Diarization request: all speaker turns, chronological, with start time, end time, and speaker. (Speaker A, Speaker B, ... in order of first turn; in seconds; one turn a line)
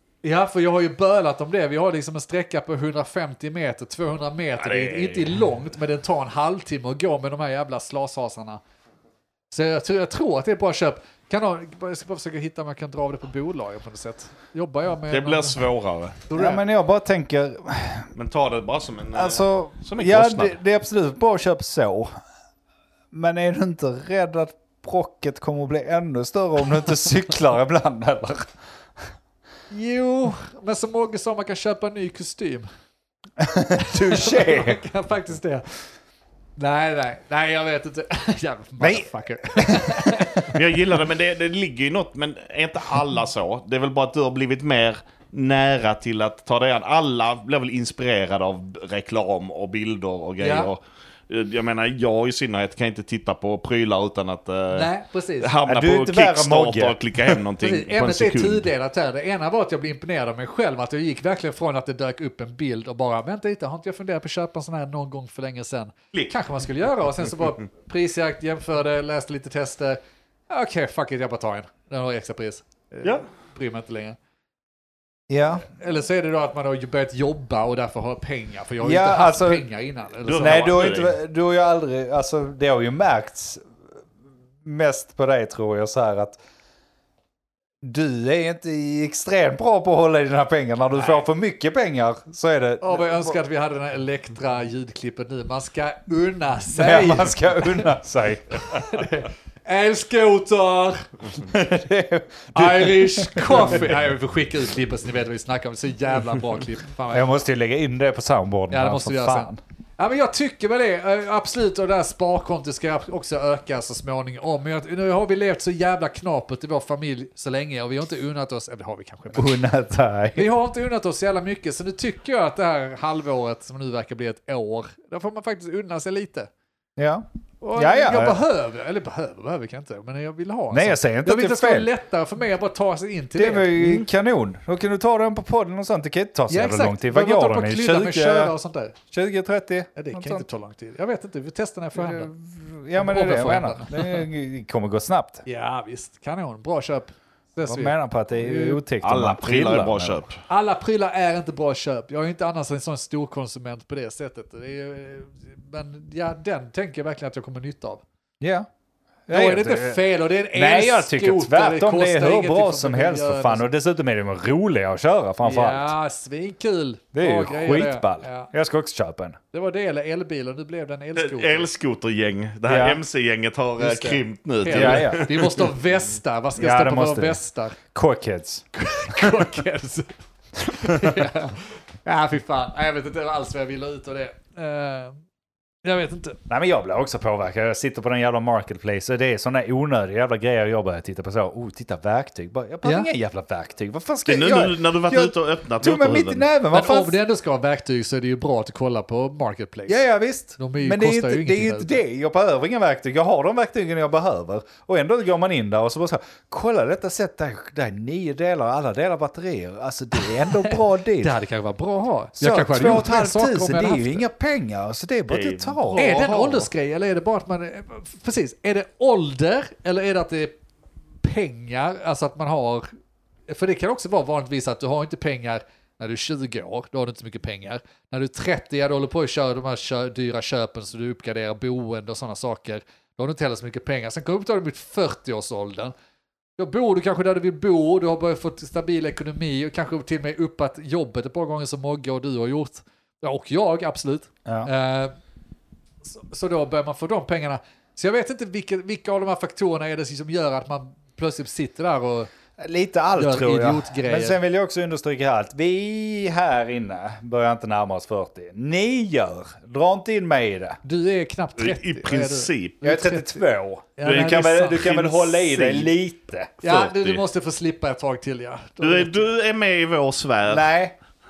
Speaker A: 0.2-8.6
Speaker B: 4.6-5.4
Speaker A: 9.5-15.6
Speaker B: 15.1-16.2
Speaker A: 16.3-16.6
Speaker C: 16.3-18.1
Speaker B: 18.1-20.6
Speaker C: 19.1-22.1
Speaker C: 23.1-28.5
Speaker A: 29.7-32.7
Speaker C: 33.4-34.8
Speaker A: 33.9-35.7
Speaker A: 36.6-40.6
Speaker C: 38.8-40.5
Speaker B: 40.5-58.7
Speaker A: 50.4-50.7
Speaker A: 54.7-55.5
Speaker C: 55.6-57.0
Speaker A: 57.6-74.2
Speaker C: 75.3-75.7
Speaker A: 75.5-80.8
Speaker C: 78.8-79.7
Speaker B: 80.2-81.1
Speaker C: 80.4-83.6
Speaker C: 84.6-86.4
Speaker C: 87.8-93.3
Speaker A: 91.0-91.2
Speaker A: 92.8-97.9
Speaker C: 96.7-99.0
Speaker A: 98.7-101.1
Speaker C: 101.4-103.9
Speaker A: 102.5-107.3
Speaker C: 107.1-109.6
Speaker A: 108.7-119.6
Speaker C: 119.3-120.5
Speaker A: 120.3-126.5
Speaker C: 127.0-127.2
Speaker A: 127.6-134.0
Speaker C: 127.8-128.4
Speaker C: 130.7-131.9
Speaker C: 133.3-138.5
Speaker A: 136.5-138.9
Speaker C: 139.1-140.4
Speaker A: 139.9-142.3
Speaker C: 141.9-145.4
Speaker A: 142.9-144.2
Speaker A: 145.4-148.8
Speaker C: 147.7-150.2
Speaker B: 149.0-150.4
Speaker A: 150.5-158.0
Speaker C: 158.4-158.7
Speaker C: 159.3-165.9
Speaker A: 159.3-163.7
Speaker A: 165.4-168.5
Speaker C: 167.1-169.4
Speaker A: 169.5-171.7
Speaker B: 171.2-175.7
Speaker C: 172.7-173.0
Speaker A: 173.8-177.8
Speaker C: 174.7-175.3
Speaker C: 176.6-177.4
Speaker C: 177.9-179.4
Speaker A: 178.7-180.1
Speaker A: 180.7-185.2
Speaker A: 185.8-186.4
Speaker C: 186.5-197.2
Speaker A: 192.8-193.1
Speaker B: 194.2-196.4
Speaker A: 196.7-200.0
Speaker C: 199.9-211.3
Speaker A: 200.6-202.0
Speaker A: 210.2-214.2
Speaker C: 212.3-216.0
Speaker B: 215.3-216.7
Speaker A: 215.9-220.5
Speaker A: 221.2-222.9
Speaker A: 223.5-235.9
Speaker A: 236.6-245.1
Speaker C: 244.4-244.7
Speaker A: 246.0-252.3
Speaker C: 252.6-260.8
Speaker A: 253.2-254.4
Speaker A: 260.8-263.4
Speaker B: 261.6-262.8
Speaker C: 262.8-266.5
Speaker A: 264.0-264.8
Speaker B: 264.0-265.9
Speaker B: 266.6-267.2
Speaker A: 266.6-269.3
Speaker B: 268.8-270.7
Speaker C: 270.5-270.9